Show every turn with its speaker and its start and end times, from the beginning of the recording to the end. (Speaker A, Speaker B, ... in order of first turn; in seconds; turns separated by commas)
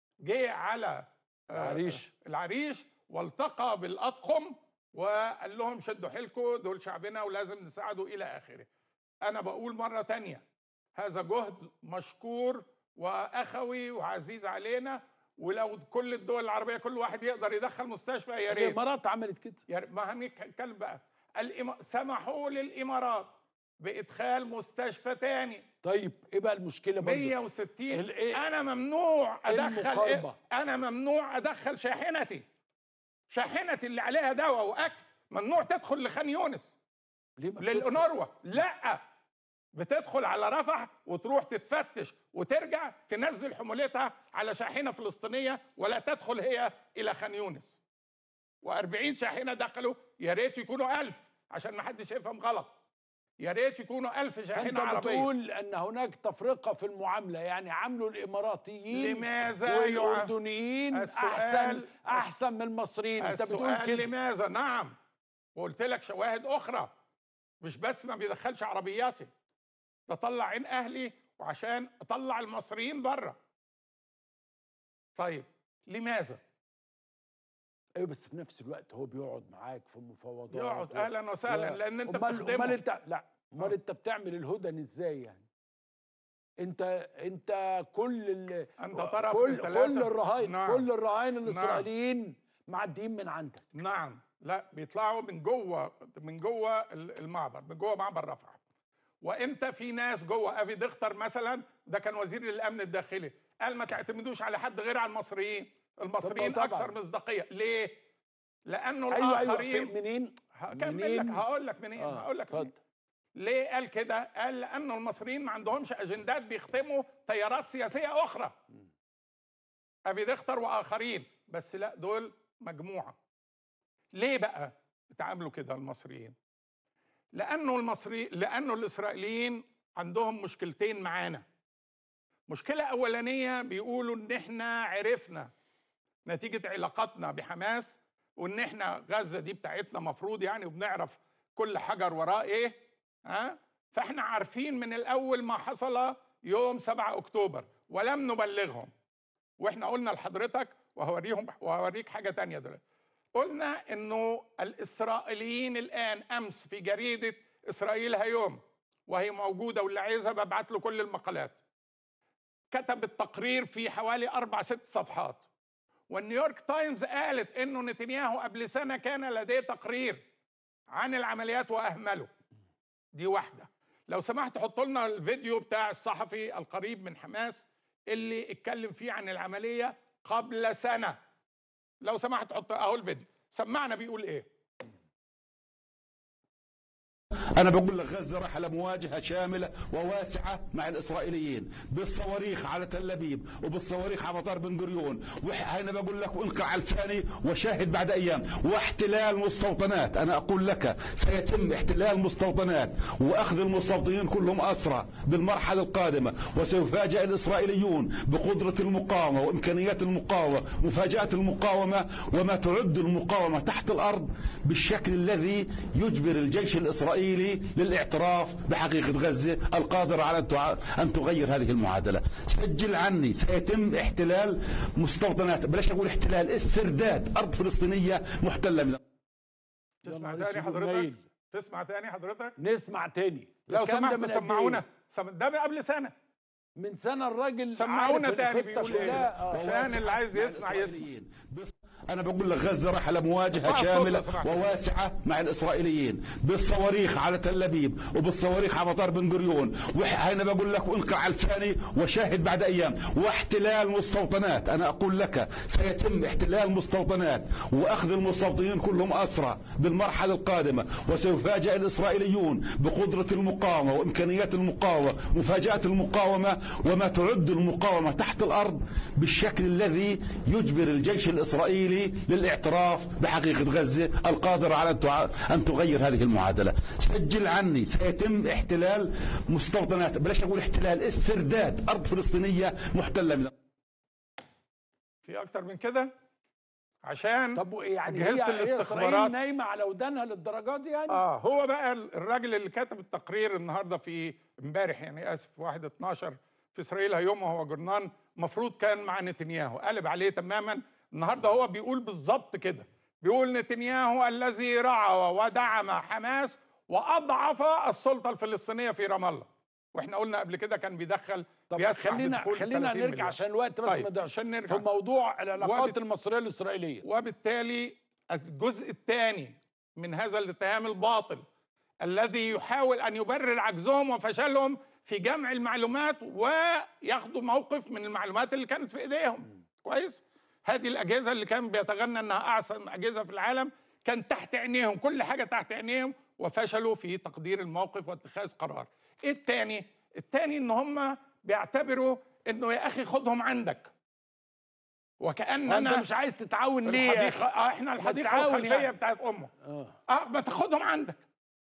Speaker A: 0.2-8.7, Speaker B: 1.5-2.1, Speaker A: 9.2-10.4, Speaker A: 10.9-18.8, Speaker B: 18.5-19.6, Speaker A: 19.7-25.6, Speaker B: 25.8-27.3, Speaker A: 27.0-32.4, Speaker B: 27.9-28.4, Speaker B: 29.5-30.4, Speaker A: 33.3-36.8, Speaker B: 37.4-38.1, Speaker A: 37.6-39.0, Speaker A: 39.7-47.8, Speaker A: 48.6-52.7, Speaker A: 53.4-55.3, Speaker B: 54.5-64.1, Speaker A: 58.9-60.3, Speaker A: 60.9-62.3, Speaker A: 63.2-64.9, Speaker A: 65.5-66.9, Speaker A: 67.6-69.3, Speaker A: 70.1-73.4, Speaker A: 75.2-76.4, Speaker B: 78.0-85.5, Speaker A: 80.5-82.8, Speaker B: 86.6-93.6, Speaker A: 88.8-90.9, Speaker A: 91.5-91.9, Speaker A: 93.7-98.6, Speaker A: 99.2-108.0, Speaker B: 106.2-107.0, Speaker A: 108.7-109.9, Speaker B: 109.1-111.4, Speaker A: 110.5-112.7, Speaker B: 112.0-112.8, Speaker A: 113.4-118.5, Speaker A: 120.1-123.2, Speaker A: 124.1-126.4, Speaker A: 127.3-131.4, Speaker A: 132.5-135.5, Speaker A: 136.3-148.9, Speaker A: 149.6-152.8, Speaker A: 153.3-161.6, Speaker A: 162.7-165.5, Speaker A: 166.1-170.2, Speaker A: 170.9-172.3, Speaker A: 173.1-181.2, Speaker A: 182.0-184.5, Speaker C: 187.5-229.0, Speaker A: 230.0-232.6, Speaker B: 230.1-231.2, Speaker B: 232.6-234.8, Speaker A: 233.7-236.1, Speaker B: 236.8-239.7, Speaker A: 237.7-241.1, Speaker C: 239.2-283.5, Speaker A: 243.6-244.7, Speaker A: 285.2-286.1, Speaker A: 287.0-289.3, Speaker B: 287.6-291.2, Speaker A: 291.1-314.9, Speaker B: 311.7-317.1, Speaker A: 315.6-316.0, Speaker A: 317.0-321.4, Speaker A: 322.0-343.9, Speaker A: 345.2-346.1, Speaker B: 345.7-347.5, Speaker A: 346.9-349.5, Speaker B: 348.0-348.9, Speaker B: 349.6-350.0, Speaker A: 350.1-351.2